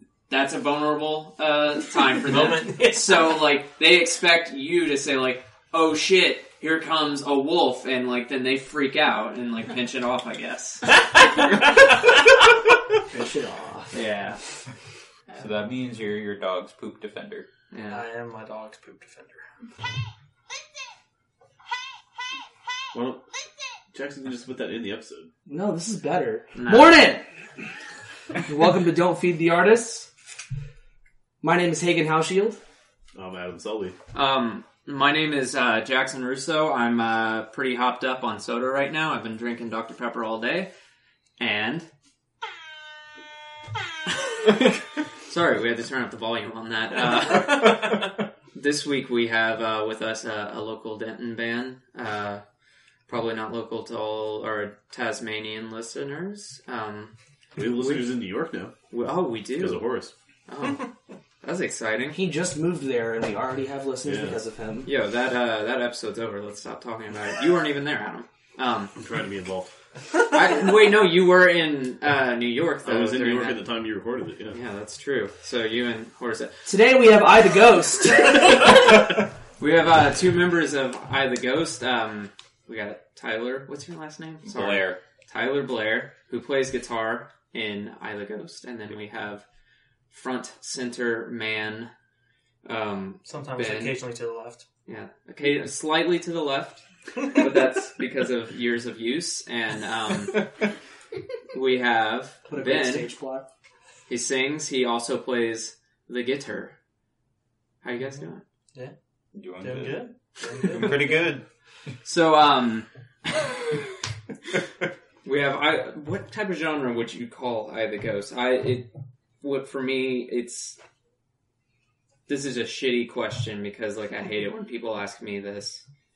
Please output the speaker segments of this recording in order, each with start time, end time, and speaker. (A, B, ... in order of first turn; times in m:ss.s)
0:00.3-0:11.0 A
0:02.3-0:03.3 B
0:13.1-0:14.0 C
0:13.9-0:14.4 A
0:15.4-0:17.4 D
0:17.7-0:18.0 A
0:17.9-0:19.5 B
0:22.9-0:25.3 E
0:25.4-0:27.7 C
0:26.5-0:27.0 A
0:28.4-0:30.1 C
0:31.4-0:32.6 C
0:33.1-0:33.9 E
0:34.1-0:40.7 A
0:41.4-0:41.9 A
0:44.4-0:52.4 A
0:53.1-0:57.1 A
0:57.5-0:58.7 E
0:57.6-0:58.0 A
0:58.9-0:59.9 A
0:59.5-1:00.1 E
1:00.5-1:02.2 A
1:02.1-1:04.9 C
1:04.0-1:04.4 E
1:04.8-1:09.0 A
1:09.0-1:09.7 E
1:10.3-1:13.6 A
1:12.8-1:14.6 E
1:14.5-1:16.6 A
1:16.6-1:18.7 C
1:19.6-1:29.4 A
1:24.4-1:25.0 D
1:30.1-1:31.9 A
1:32.6-1:34.0 A
1:33.2-1:34.6 B
1:34.8-1:40.7 A
1:41.5-1:43.1 A
1:42.5-1:43.4 C
1:44.1-1:46.7 A
1:47.8-1:48.4 A
1:48.7-1:50.9 B
1:49.3-1:51.5 D
1:52.0-1:52.9 A
1:55.2-2:00.8 A
2:02.3-2:05.8 A